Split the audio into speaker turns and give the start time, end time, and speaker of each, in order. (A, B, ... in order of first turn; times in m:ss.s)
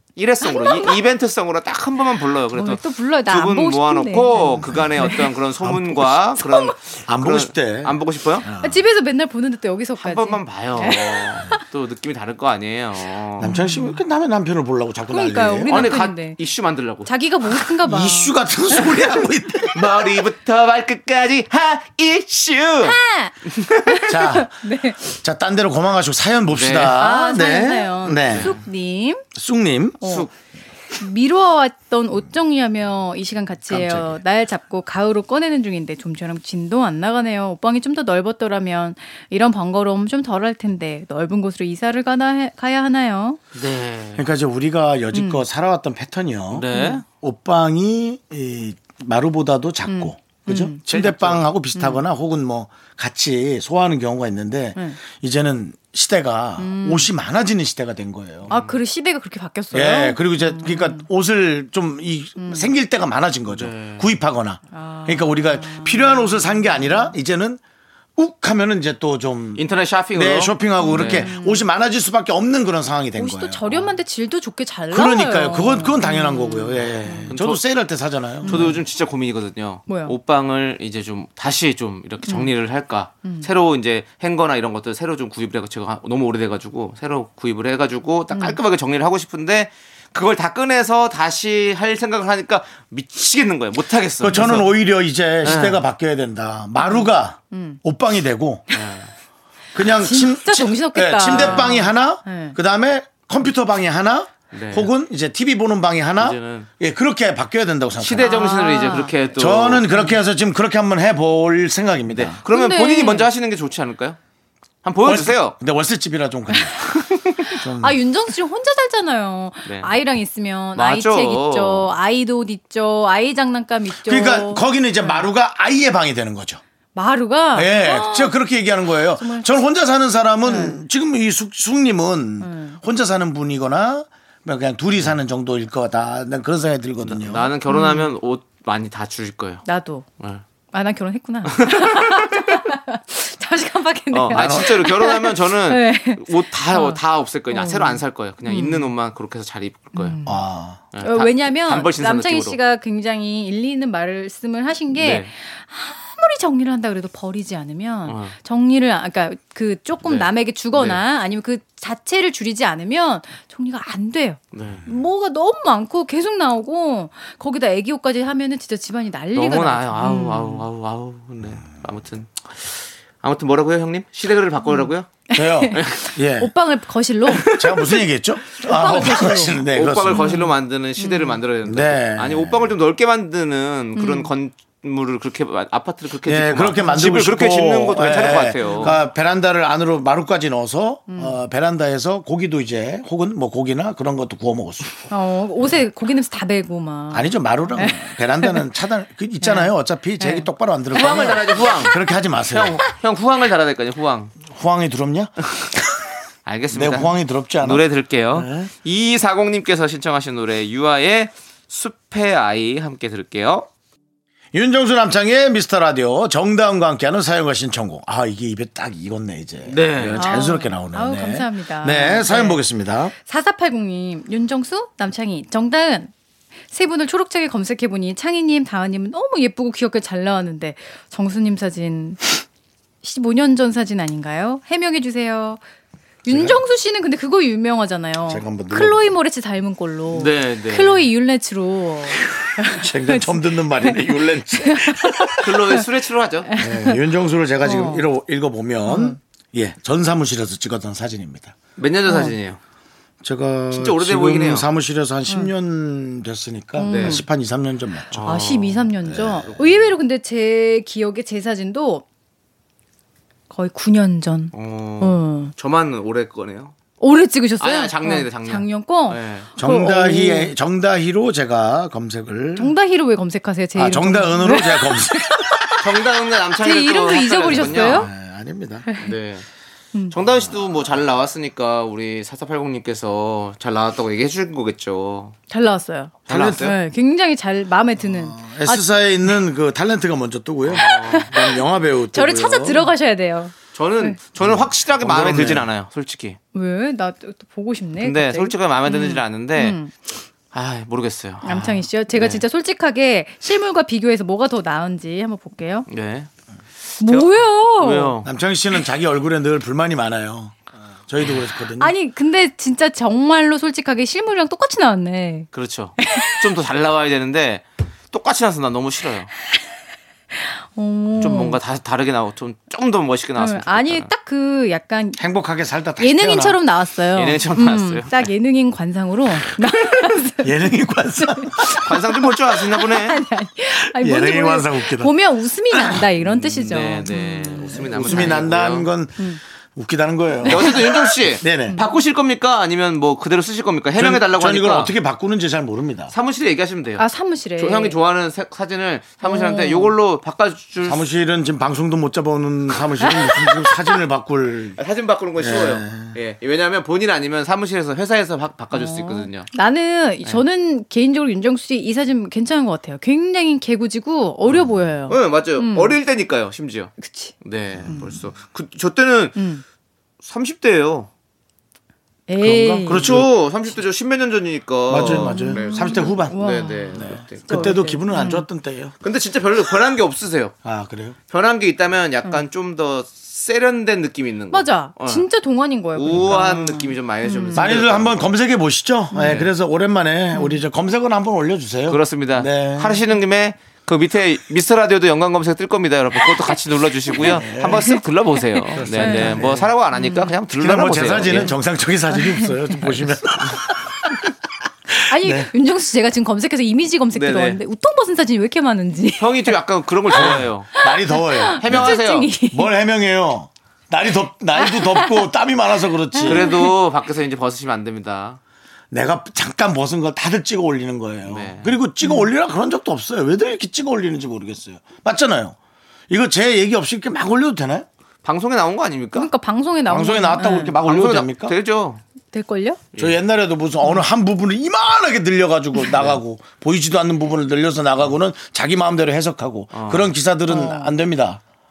0:00.2-0:08.5 A
0:00.4-0:01.0 B
0:02.5-0:05.3 B
0:05.6-0:06.4 C
0:07.0-0:08.8 C
0:08.6-0:11.6 B
0:10.0-0:13.5 A
0:13.4-0:14.0 B
0:13.4-0:15.9 C
0:15.1-0:16.4 B
0:15.7-0:17.1 A
0:17.0-0:18.4 B
0:17.8-0:20.0 C
0:19.7-0:24.0 A
0:22.8-0:25.1 B
0:24.1-0:28.6 C
0:26.5-0:27.0 A
0:27.0-0:29.2 B
0:28.3-0:28.6 A
0:29.4-0:30.0 C
0:30.0-0:30.3 B
0:30.0-0:30.3 A
0:31.0-0:43.4 B
0:33.7-0:34.2 C
0:43.6-0:44.2 A
0:44.2-0:58.5 C
0:45.1-0:45.4 B
0:46.5-0:47.0 A
0:46.7-0:47.0 B
0:49.9-0:50.8 B
0:50.9-0:51.4 A
0:51.8-0:52.0 B
0:56.6-0:57.1 B
0:58.5-0:58.8 A
0:58.5-1:01.0 B
0:59.7-1:07.6 C
1:02.4-1:02.7 B
1:03.5-1:04.1 A
1:04.7-1:07.2 B
1:08.2-1:13.6 C
1:09.6-1:11.3 A
1:10.8-1:11.6 B
1:13.2-1:17.3 B
1:14.9-1:18.7 C
1:17.3-1:17.6 A
1:18.4-1:18.8 B
1:18.4-1:34.7 A
1:19.9-1:20.2 B
1:22.3-1:22.5 B
1:28.3-1:28.6 B
1:34.2-1:38.6 C
1:35.4-1:35.8 A
1:36.8-1:37.8 B
1:38.7-1:39.1 A
1:39.8-1:48.4 C
1:39.9-1:42.6 B
1:41.3-1:41.8 A
1:44.5-1:44.9 A
1:46.2-1:46.7 A
1:48.0-1:49.9 A
1:48.2-1:49.2 B
1:49.4-1:52.4 C
1:52.1-1:54.2 A
1:52.5-1:53.3 B
1:54.8-1:55.6 A
1:55.0-1:56.8 C
1:57.4-2:05.3 B
1:57.5-1:58.0 C
1:59.7-1:59.9 A
2:00.8-2:01.9 A
2:04.0-2:06.6 C
2:07.0-2:08.4 B
2:07.5-2:17.5 C
2:09.2-2:09.5 B
2:10.4-2:10.8 B
2:12.4-2:12.8 B
2:17.0-2:19.6 A
2:17.7-2:18.1 B
2:19.6-2:20.1 B
2:20.7-2:28.9 B
2:21.5-2:22.6 A
2:24.1-2:30.2 A
2:24.3-2:24.8 C
2:29.9-2:30.4 B
2:30.2-2:30.8 C
2:30.9-2:32.6 A
2:31.0-2:50.7 B
2:34.9-2:35.3 A
2:38.1-2:38.3 A
2:40.0-2:41.0 A
2:44.5-2:44.8 A
2:49.3-2:55.1 A
2:54.6-2:57.7 B
2:55.3-2:56.5 C
2:55.7-2:56.0 A
2:57.4-2:57.8 A
2:57.5-3:00.4 C
2:58.6-2:59.6 B
2:59.6-3:09.0 A
3:00.1-3:01.4 B
3:01.6-3:02.8 C
3:04.0-3:04.3 B
3:06.3-3:15.1 C
3:08.6-3:09.0 B
3:11.1-3:11.4 B
3:15.1-3:18.6 B
3:17.1-3:22.8 C
3:19.4-3:20.5 B
3:20.9-3:22.0 A
3:21.0-3:21.8 B
3:22.5-3:24.3 A
3:24.4-3:26.0 C
3:26.5-3:33.7 A
3:26.7-3:28.7 C
3:34.5-3:43.1 C
3:39.7-3:40.4 A
3:40.2-3:42.6 B
3:43.2-3:46.1 B
3:46.7-3:52.3 B
3:53.0-3:55.6 B
3:56.2-4:05.8 B
3:56.3-3:56.6 C
3:58.3-3:59.1 C
4:00.1-4:01.0 A
4:02.4-4:05.4 C
4:05.4-4:06.5 A
4:06.5-4:07.0 B
4:06.6-4:11.6 C
4:07.6-4:08.1 B
4:08.8-4:09.2 B
4:11.8-4:12.6 A
4:12.1-4:12.4 B
4:13.2-4:18.3 C
4:13.7-4:14.7 A
4:16.8-4:17.2 B
4:16.8-4:17.2 A
4:18.1-4:18.9 A
4:18.2-4:22.0 B
4:19.0-4:19.6 C
4:23.5-4:25.5 B
4:24.5-4:26.7 A
4:27.0-4:30.5 B
4:27.6-4:29.5 A
4:29.6-4:32.8 C
4:32.6-4:35.7 B
4:33.8-4:35.8 C
4:35.8-4:38.1 A
4:36.6-4:38.1 B
4:37.5-4:38.9 C
4:38.9-4:39.1 B
4:39.0-4:39.5 A
4:40.1-4:45.4 A
4:45.5-4:48.9 B
4:46.3-4:46.8 A
4:46.3-4:46.7 C
4:48.0-4:52.9 C
4:50.6-4:51.3 A
4:50.8-4:54.2 B
4:53.8-4:56.4 A
4:54.4-4:55.7 C
4:56.5-4:59.9 B
4:58.0-4:59.8 A
5:00.5-5:02.4 A
5:01.4-5:05.9 B
5:05.9-5:06.3 A
5:07.0-5:08.2 B
5:07.0-5:08.3 A
5:08.2-5:11.9 C
5:11.8-5:16.5 B
5:15.5-5:19.3 A
5:20.4-5:21.6 B
5:21.2-5:24.1 A
5:23.4-5:25.2 B
5:25.2-5:26.6 C
5:26.0-5:38.4 B
5:27.2-5:28.1 A
5:30.4-5:31.8 C
5:31.8-5:33.2 A
5:33.8-5:35.1 C
5:35.7-5:36.1 C
5:36.4-5:38.9 A
5:37.8-5:41.8 C
5:40.4-5:41.1 B
5:40.5-5:44.9 A
5:44.0-5:46.1 C
5:46.1-5:47.1 A
5:47.0-5:48.0 B
5:47.6-5:51.0 A
5:49.2-5:49.9 B
5:50.8-5:54.8 C
5:53.0-5:54.0 B
5:54.8-5:59.5 A
5:55.4-5:56.2 C
5:58.7-6:06.0 B
6:05.1-6:09.4 A
6:07.0-6:07.4 B
6:07.9-6:08.2 B
6:09.4-6:09.6 B
6:10.2-6:11.1 A
6:12.3-6:13.2 B
6:12.4-6:13.3 C
6:12.9-6:17.8 A
6:14.9-6:16.4 C
6:15.1-6:18.5 B
6:17.0-6:18.9 C
6:19.0-6:20.6 A
6:20.6-6:21.2 C
6:21.3-6:25.2 A
6:24.5-6:27.8 B
6:26.0-6:28.4 A
6:27.6-6:33.0 C
6:29.1-6:29.4 B
6:29.2-6:29.5 A
6:30.3-6:30.6 B
6:31.9-6:41.5 A
6:37.2-6:37.9 C
6:37.2-6:38.0 B
6:38.7-6:40.3 B
6:38.8-6:39.7 C
6:40.5-6:44.1 C
6:42.1-6:43.0 B
6:45.0-6:49.5 B
6:45.1-6:45.5 C
6:47.1-6:47.6 A
6:49.2-6:50.7 A
6:50.1-6:52.7 B
6:50.1-6:56.6 C
6:51.6-6:52.3 A
6:54.6-6:55.3 B
6:56.2-6:56.7 B
6:56.2-6:58.4 A
6:58.9-7:05.6 C
7:01.3-7:01.8 A
7:02.0-7:02.3 B
7:06.1-7:07.9 C
7:08.2-7:09.3 A
7:09.1-7:10.8 B
7:09.9-7:11.6 C
7:10.8-7:12.0 A
7:12.3-7:12.8 B
7:12.9-7:13.2 A
7:13.0-7:21.4 C
7:19.7-7:20.1 A
7:20.5-7:21.0 B